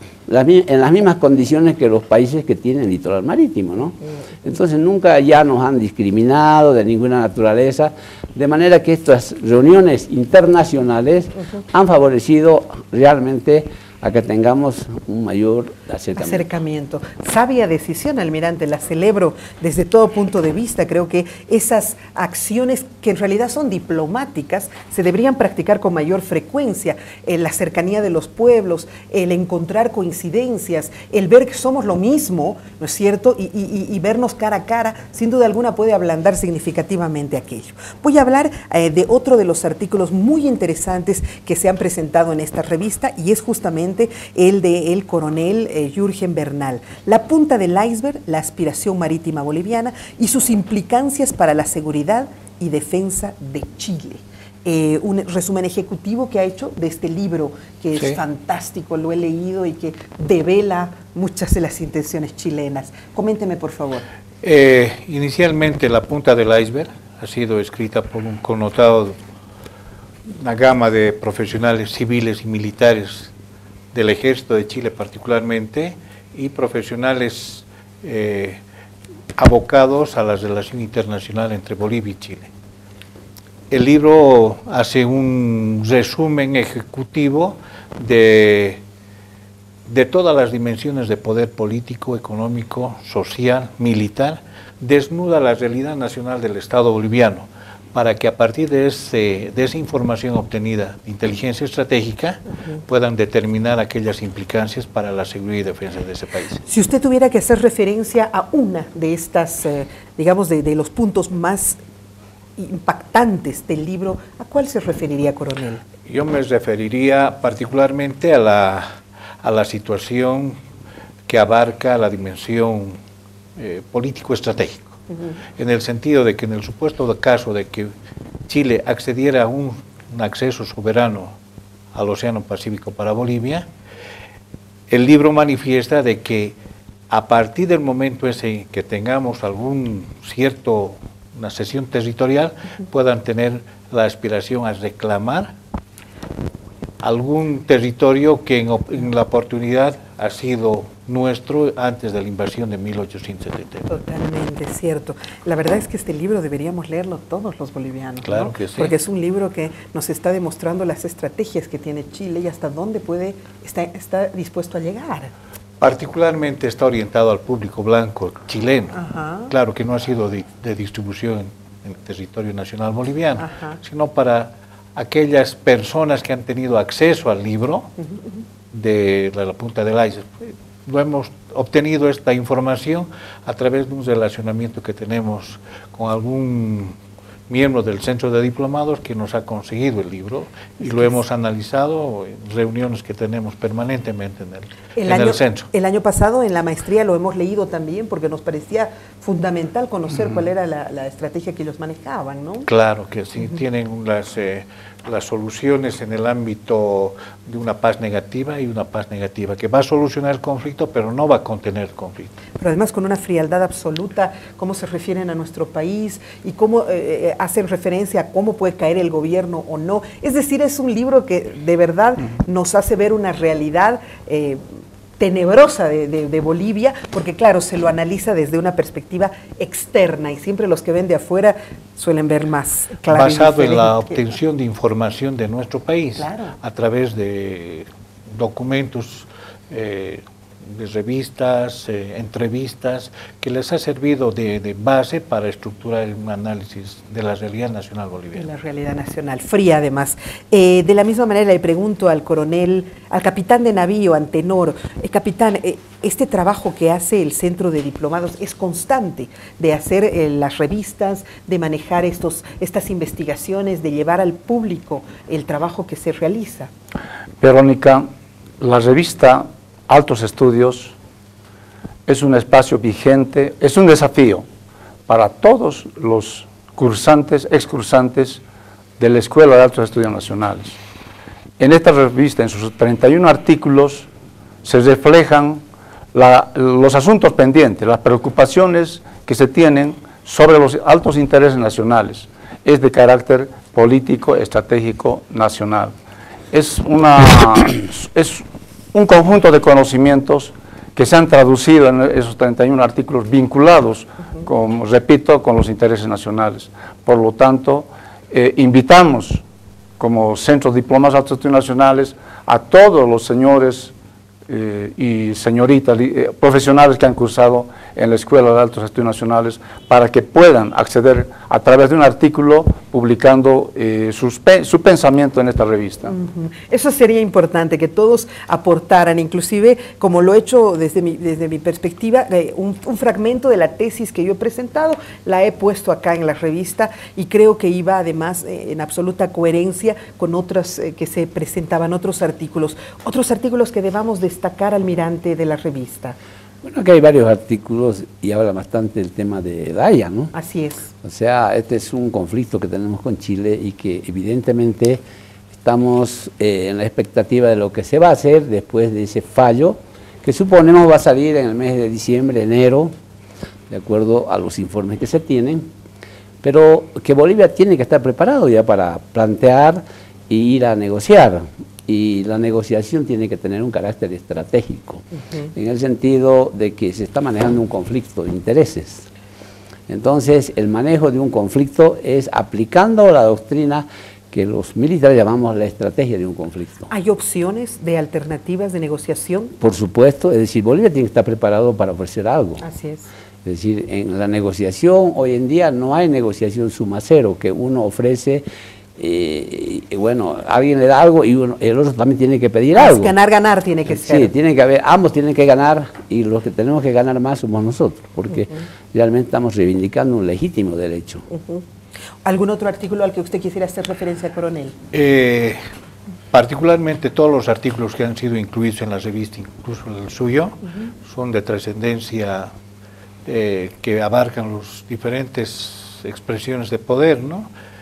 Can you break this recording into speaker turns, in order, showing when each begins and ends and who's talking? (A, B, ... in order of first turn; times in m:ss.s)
0:00.3-0:16.4 A
0:16.2-1:04.0 B
1:04.4-1:09.2 C
1:10.3-1:13.3 C
1:13.9-1:18.6 C
1:19.3-1:22.5 C
1:23.7-1:28.8 C
1:29.9-1:46.6 C
1:46.7-1:51.8 B
1:52.6-1:55.8 B
1:56.0-1:58.9 C
1:59.4-2:00.6 C
2:01.3-2:03.0 C
2:03.6-2:05.0 C
2:05.6-2:07.9 C
2:08.5-2:11.3 C
2:11.9-2:13.6 C
2:14.9-2:16.6 C
2:17.1-2:25.5 C
2:27.0-2:33.9 C
2:33.9-2:45.3 B
2:38.2-2:38.9 C
2:45.8-2:49.0 C
2:48.9-2:49.5 B
2:49.5-2:57.9 C
2:53.4-2:53.8 B
2:58.7-3:07.0 C
3:07.5-3:15.7 C
3:10.8-3:11.1 B
3:15.0-3:22.7 B
3:22.7-3:32.3 C
3:32.6-3:44.6 B
3:45.2-3:54.1 B
3:53.1-4:08.5 C
3:56.2-3:56.5 B
4:08.3-4:26.7 B
4:27.4-4:28.1 D
4:28.6-4:30.9 D
4:32.0-4:34.4 D
4:35.1-4:38.4 D
4:39.0-4:40.8 D
4:41.6-4:44.1 D
4:44.6-4:45.6 D
4:46.1-4:55.9 D
4:56.5-5:09.4 D
5:10.0-5:13.9 D
5:14.5-5:26.1 D
5:26.0-5:46.2 B
5:46.6-5:50.3 A
5:50.3-5:50.9 B
5:51.0-5:55.0 A
5:55.6-6:02.9 A
6:03.7-6:05.7 A
6:06.4-6:19.0 A
6:19.9-6:26.9 A
6:26.9-6:29.5 B
6:29.6-6:32.6 A
6:32.6-6:33.1 B
6:33.4-6:38.4 A
6:39.0-6:43.1 A
6:42.8-6:44.3 B
6:43.9-6:51.3 A
6:51.3-6:51.6 B
6:52.2-6:54.8 B
6:54.9-6:55.6 C
6:56.3-7:02.5 C
7:03.2-7:07.5 C